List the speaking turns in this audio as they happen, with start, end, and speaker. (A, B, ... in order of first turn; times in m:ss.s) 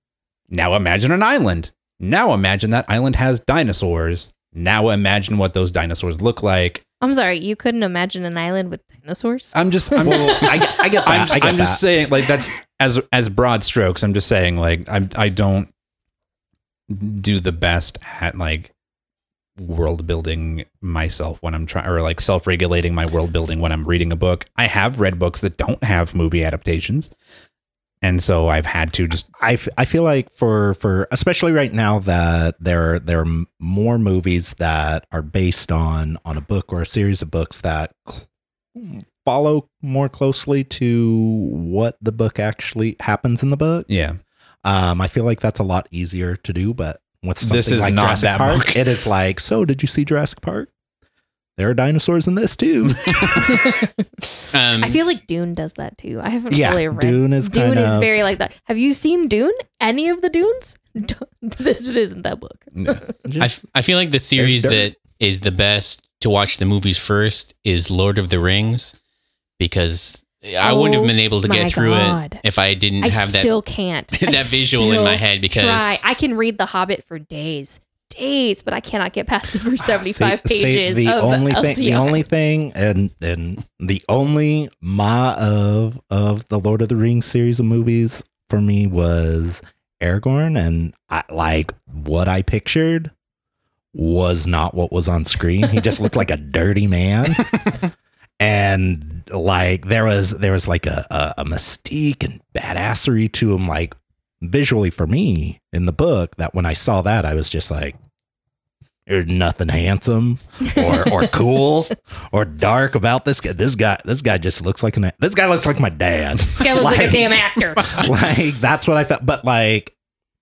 0:00.5-0:06.8 A
0:07.0-0:09.5 B
0:09.5-0:15.7 A
0:10.0-0:11.8 C
0:10.0-0:10.8 B
0:16.9-0:18.7 A
0:19.6-0:27.1 A
0:28.0-0:29.3 A
0:29.4-0:43.9 C
0:43.9-0:44.2 A
0:44.6-0:50.7 C
0:47.4-0:48.8 A
0:51.6-0:53.3 C
0:53.4-0:54.0 B
0:54.5-0:55.0 D
0:54.8-1:03.1 B
0:56.5-0:58.1 C
1:02.7-1:03.0 A
1:03.2-1:03.6 C
1:03.4-1:08.9 D
1:04.4-1:04.9 C
1:09.6-1:13.5 D
1:10.6-1:12.4 B
1:13.0-1:22.2 B
1:14.1-1:15.9 D
1:19.9-1:33.1 C
1:33.9-1:37.7 C
1:38.4-1:48.0 C
1:49.1-1:59.9 C
1:50.7-1:51.2 B
1:56.6-1:58.0 B